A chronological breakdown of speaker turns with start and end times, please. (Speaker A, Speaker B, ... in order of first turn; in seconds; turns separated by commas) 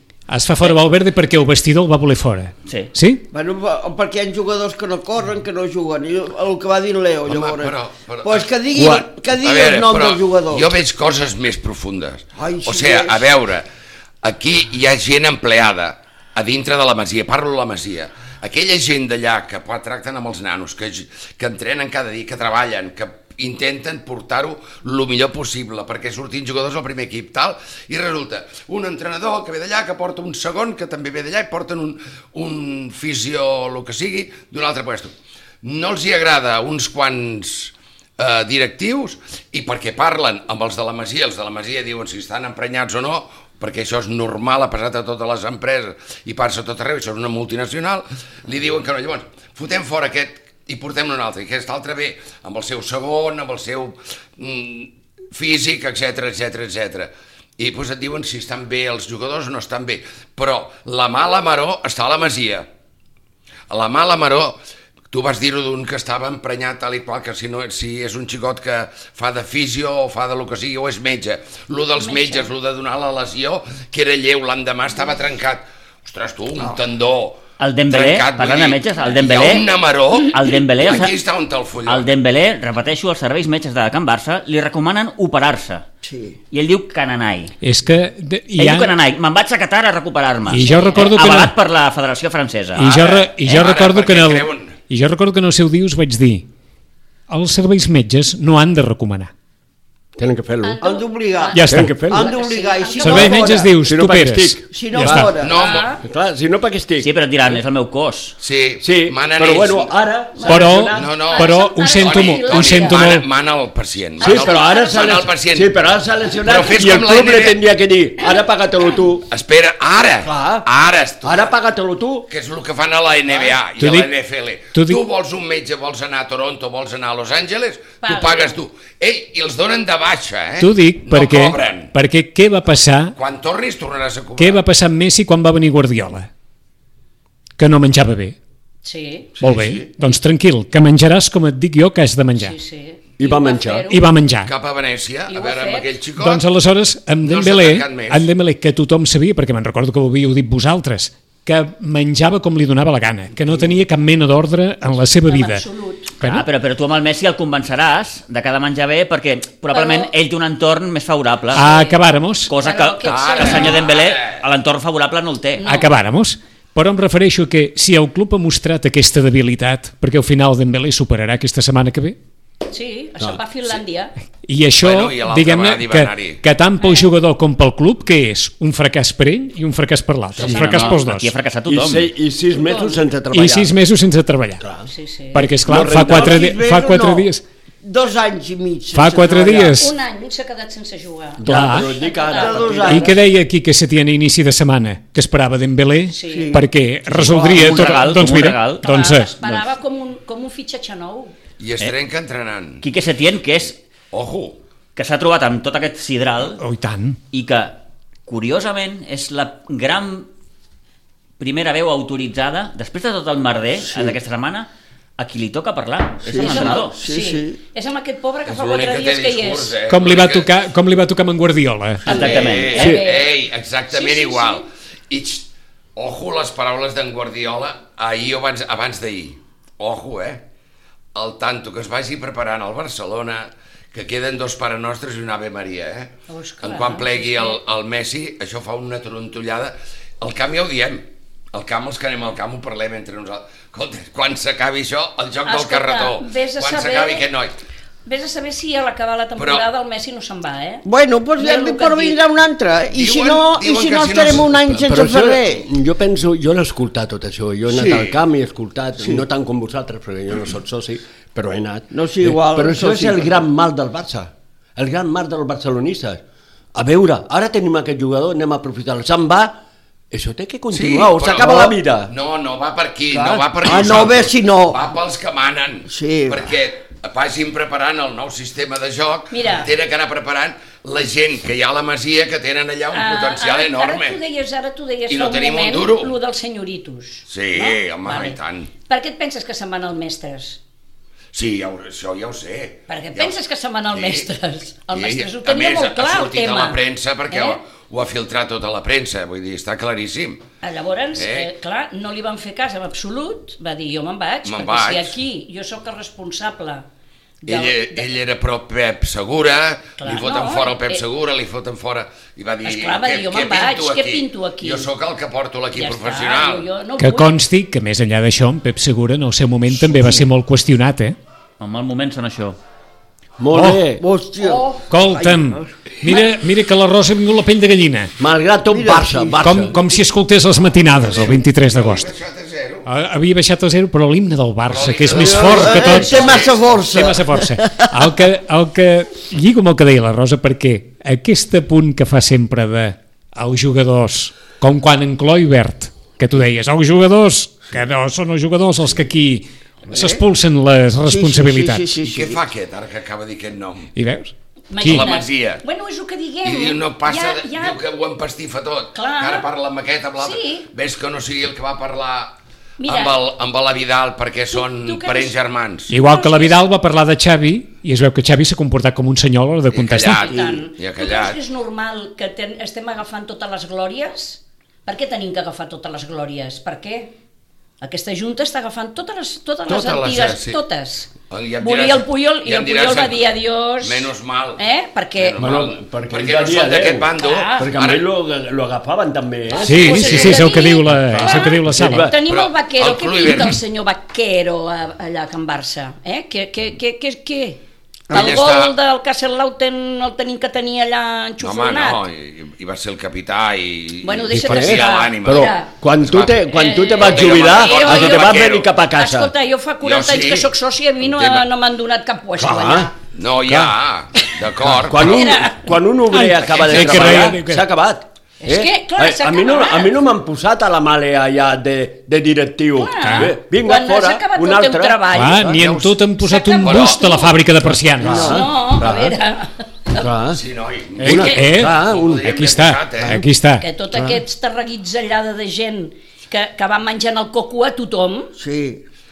Speaker A: 0.3-3.2, Speaker B: 2.6-2.9, Speaker C: 3.3-10.7, Speaker D: 7.3-13.7, Speaker C: 12.4-13.2, Speaker D: 14.2-62.7, Speaker D: 63.7-64.6, Speaker D: 65.1-82.1, Speaker E: 72.0-72.5, Speaker B: 77.6-79.7, Speaker B: 80.2-81.2, Speaker B: 81.8-85.8, Speaker C: 86.0-86.4, Speaker B: 86.5-87.5, Speaker A: 87.6-88.9, Speaker B: 88.5-93.0, Speaker A: 90.5-91.5, Speaker E: 90.5-91.2, Speaker A: 92.8-96.5, Speaker D: 92.8-94.8, Speaker A: 97.3-99.3, Speaker F: 100.2-100.8, Speaker E: 100.6-103.7, Speaker C: 100.8-103.7, Speaker A: 101.5-102.1, Speaker F: 101.7-102.3, Speaker A: 103.0-105.3, Speaker F: 103.7-105.3, Speaker C: 104.7-105.6, Speaker D: 105.4-106.0, Speaker E: 105.5-106.0, Speaker F: 106.0-107.1, Speaker B: 107.0-108.4, Speaker D: 108.4-109.9, Speaker F: 108.8-111.2, Speaker E: 110.4-113.0, Speaker A: 110.5-113.2, Speaker D: 110.9-115.7, Speaker F: 114.2-119.2, Speaker E: 114.2-115.2, Speaker D: 116.4-117.6, Speaker D: 119.3-121.5, Speaker F: 120.2-120.7, Speaker F: 121.2-122.2, Speaker D: 122.3-131.9, Speaker A: 123.8-124.1, Speaker A: 124.7-125.0, Speaker E: 128.0-128.6, Speaker A: 130.6-133.2, Speaker D: 133.2-134.6, Speaker A: 134.4-136.3, Speaker A: 137.6-138.3, Speaker E: 138.8-139.4, Speaker D: 139.4-139.9, Speaker A: 139.4-142.6, Speaker E: 142.4-144.1, Speaker F: 143.2-143.9, Speaker A: 143.9-144.5, Speaker D: 144.4-146.4, Speaker E: 145.3-145.9, Speaker A: 146.2-155.6, Speaker D: 147.2-148.3, Speaker E: 155.2-156.1, Speaker A: 156.2-156.4, Speaker B: 156.2-161.7, Speaker E: 159.7-160.1, Speaker A: 161.5-162.5, Speaker E: 161.6-163.8, Speaker B: 162.5-165.6, Speaker D: 163.1-164.4, Speaker E: 165.6-165.9, Speaker A: 165.6-172.2, Speaker E: 172.7-174.1, Speaker A: 174.4-181.3, Speaker D: 174.8-176.4, Speaker E: 176.8-177.1, Speaker B: 180.4-182.1, Speaker F: 181.7-183.7, Speaker E: 182.5-183.0, Speaker A: 183.3-184.6, Speaker F: 184.6-184.9, Speaker E: 184.9-185.6, Speaker A: 185.3-187.4, Speaker F: 185.6-186.5, Speaker C: 185.8-187.3, Speaker C: 187.8-189.8, Speaker A: 188.9-189.9, Speaker E: 189.7-192.9, Speaker F: 191.4-193.2, Speaker A: 191.4-191.9, Speaker C: 192.2-193.2, Speaker A: 192.8-199.3, Speaker E: 196.1-196.6, Speaker C: 196.2-197.9, Speaker B: 197.2-199.7, Speaker E: 198.8-201.3, Speaker D: 201.6-202.8, Speaker B: 202.8-203.8, Speaker D: 204.1-204.6, Speaker B: 204.9-206.6, Speaker A: 206.6-207.2, Speaker B: 207.3-210.3, Speaker B: 211.4-217.0, Speaker C: 216.2-217.6, Speaker E: 216.3-219.8, Speaker D: 218.4-220.5, Speaker A: 219.9-222.1, Speaker E: 222.0-223.3, Speaker B: 222.1-222.9, Speaker D: 222.1-230.4, Speaker E: 223.9-224.6, Speaker D: 231.1-247.6, Speaker E: 236.3-237.6, Speaker E: 245.4-247.2, Speaker E: 248.0-252.2, Speaker D: 249.4-249.7, Speaker C: 250.8-255.7, Speaker D: 252.9-255.0, Speaker F: 254.8-266.2, Speaker C: 257.7-258.1, Speaker D: 257.8-258.2, Speaker C: 261.9-263.4, Speaker F: 266.7-269.6, Speaker F: 270.1-272.1, Speaker D: 270.7-284.2, Speaker C: 271.4-271.7, Speaker C: 273.1-274.9, Speaker C: 275.9-276.5, Speaker E: 279.3-279.7, Speaker E: 282.9-290.6, Speaker D: 285.1-286.2, Speaker D: 287.3-288.7, Speaker D: 291.3-293.4, Speaker E: 292.9-297.6, Speaker D: 293.9-294.3, Speaker D: 294.9-300.4, Speaker E: 300.6-306.9, Speaker D: 301.1-301.5, Speaker D: 304.4-305.2, Speaker E: 307.4-308.0, Speaker D: 307.4-316.7, Speaker E: 310.0-311.0, Speaker E: 312.6-314.9, Speaker E: 315.7-317.4, Speaker A: 317.0-321.2, Speaker B: 321.6-322.6, Speaker F: 323.4-324.0, Speaker A: 323.5-323.8, Speaker C: 324.0-326.2, Speaker E: 324.4-324.8, Speaker A: 324.9-328.1, Speaker F: 328.2-329.7, Speaker C: 328.7-329.4, Speaker A: 329.4-332.1, Speaker D: 330.9-332.9, Speaker A: 332.9-351.9, Speaker D: 334.6-336.7, Speaker C: 335.1-337.9, Speaker C: 349.9-350.2, Speaker C: 351.1-352.4, Speaker D: 352.0-353.9, Speaker A: 353.9-355.1, Speaker E: 354.7-357.8, Speaker D: 354.8-355.6, Speaker D: 356.4-366.0, Speaker E: 358.9-359.5, Speaker E: 360.2-360.7, Speaker E: 362.8-363.2, Speaker E: 364.5-365.3, Speaker A: 365.9-370.3, Speaker E: 365.9-366.6, Speaker D: 369.7-371.4, Speaker E: 370.2-377.1, Speaker E: 377.8-385.4, Speaker D: 379.7-380.6, Speaker D: 381.3-384.6, Speaker D: 385.2-388.0, Speaker F: 385.3-392.1, Speaker E: 387.1-387.8, Speaker E: 389.5-402.0, Speaker A: 389.6-392.1, Speaker D: 389.6-390.5, Speaker D: 392.2-393.6, Speaker C: 398.1-398.4, Speaker D: 398.1-398.7, Speaker D: 401.4-408.7, Speaker E: 404.0-405.8, Speaker F: 404.3-409.3, Speaker E: 406.5-412.9, Speaker D: 409.8-410.5, Speaker D: 411.0-411.5, Speaker F: 412.4-412.9, Speaker D: 413.1-415.4, Speaker F: 413.5-413.7, Speaker F: 414.7-425.6, Speaker E: 415.0-415.9, Speaker A: 416.1-417.7, Speaker D: 416.7-417.0, Speaker E: 418.4-419.9, Speaker E: 422.7-425.5, Speaker A: 423.0-423.3, Speaker A: 425.1-428.4, Speaker D: 425.5-426.1, Speaker E: 426.2-427.4, Speaker D: 426.6-427.3, Speaker F: 428.0-429.2, Speaker E: 428.0-430.1, Speaker F: 430.0-430.4, Speaker D: 430.3-433.2, Speaker F: 431.0-432.2, Speaker A: 431.0-433.6, Speaker E: 433.6-438.3, Speaker C: 438.4-438.8